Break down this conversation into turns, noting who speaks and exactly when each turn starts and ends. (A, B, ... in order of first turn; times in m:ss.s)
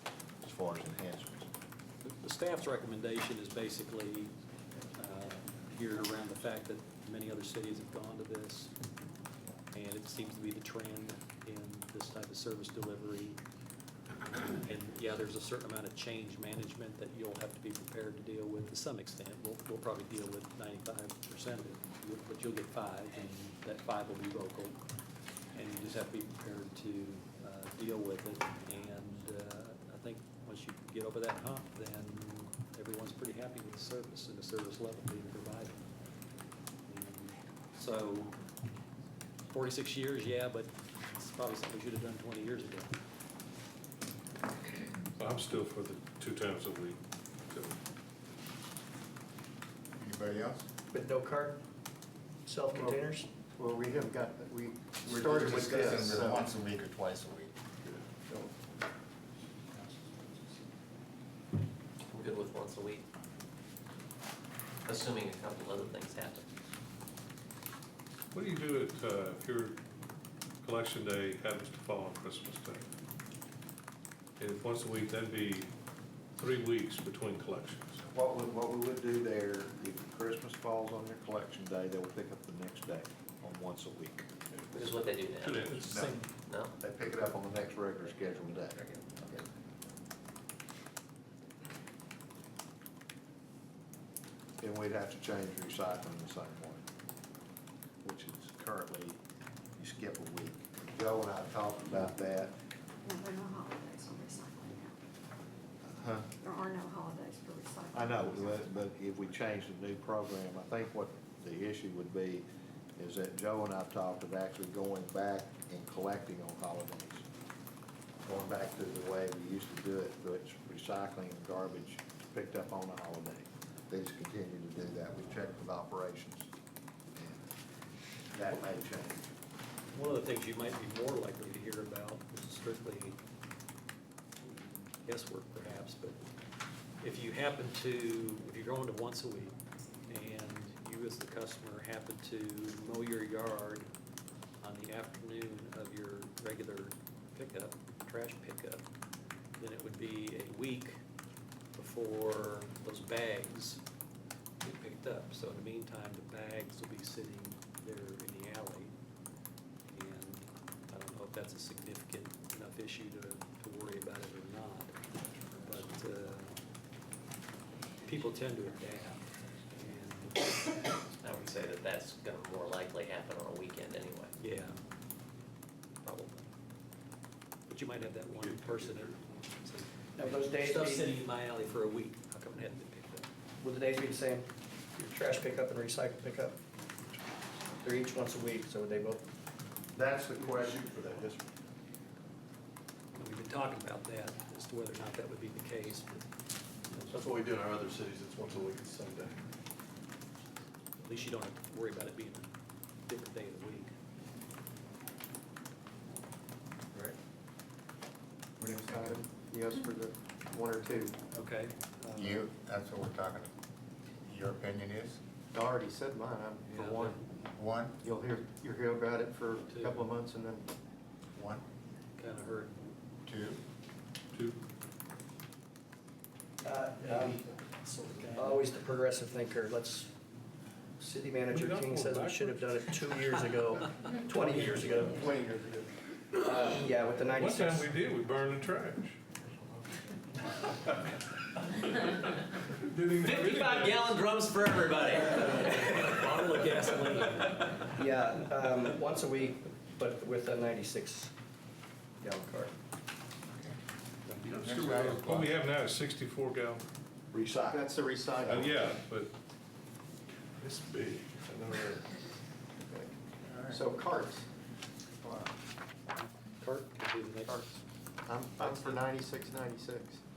0:00.4-0:01.5 A
0:02.0-0:04.3 B
0:05.0-0:08.7 B
0:09.7-0:13.4 B
0:14.3-0:24.8 B
0:25.5-0:35.8 B
0:36.9-0:38.4 B
0:39.5-0:43.0 B
0:45.2-0:47.8 C
0:50.0-0:50.7 D
0:50.9-0:51.6 E
0:52.5-0:53.3 E
0:53.6-0:56.4 F
0:55.1-0:57.5 D
1:02.1-1:03.0 G
1:04.8-1:06.5 G
1:08.3-1:09.8 C
1:10.6-1:12.9 C
1:14.4-1:15.7 C
1:16.4-1:18.0 C
1:18.0-1:24.3 A
1:24.7-1:25.8 G
1:25.4-1:26.3 C
1:25.8-1:26.3 A
1:26.5-1:26.8 G
1:26.8-1:28.8 A
1:28.9-1:29.4 G
1:34.6-1:36.9 A
1:38.0-1:39.2 A
1:39.8-1:42.6 A
1:43.0-1:45.0 H
1:45.9-1:46.3 A
1:46.4-1:48.7 H
1:47.9-1:52.5 A
1:53.0-1:57.3 A
1:58.2-2:06.5 A
2:07.2-2:07.5 A
2:08.3-2:09.4 A
2:09.9-2:13.2 B
2:14.4-2:16.2 B
2:17.0-2:19.6 B
2:20.1-2:23.9 B
2:24.6-2:28.8 B
2:29.6-2:31.0 B
2:31.7-2:33.8 B
2:34.6-2:38.9 B
2:39.9-2:46.6 B
2:48.0-2:51.0 B
2:51.1-2:54.3 G
2:54.4-2:54.8 B
2:56.0-2:56.5 B
2:57.7-3:03.3 B
2:58.4-2:59.1 C
3:00.2-3:01.1 E
3:03.6-3:06.6 E
3:07.8-3:09.2 E
3:09.9-3:11.5 A
3:13.2-3:16.2 B
3:16.9-3:17.2 B
3:17.1-3:19.4 I
3:21.0-3:22.5 B
3:23.1-3:23.9 B
3:28.6-3:29.2 D
3:28.6-3:31.2 F
3:31.3-3:32.5 B
3:32.2-3:33.5 D
3:34.2-3:35.2 D
3:35.5-3:37.2 F
3:36.7-3:37.2 B
3:37.5-3:38.0 D
3:38.0-3:40.6 F
3:39.7-3:40.1 B
3:41.4-3:41.6 D
3:42.2-3:42.8 B
3:43.3-3:43.6 D
3:46.6-3:47.4 E
3:47.0-3:48.7 B
3:48.3-3:50.1 E
3:51.0-3:55.2 E
3:51.5-3:52.9 C
3:54.6-3:55.9 F
3:56.4-3:57.9 E
3:56.5-3:59.2 C
4:02.8-4:04.2 C
4:03.2-4:06.2 G
4:05.5-4:08.0 B
4:08.0-4:11.3 E
4:12.2-4:12.7 E
4:13.5-4:13.8 D
4:14.4-4:16.9 C
4:14.5-4:15.5 D
4:17.3-4:17.9 A
4:17.7-4:18.7 F
4:18.4-4:18.7 A
4:18.5-4:19.3 C
4:21.5-4:21.9 C
4:22.8-4:24.4 F
4:23.5-4:23.8 D
4:25.2-4:25.5 D
4:26.2-4:27.8 B
4:27.5-4:30.2 F
4:28.6-4:28.9 B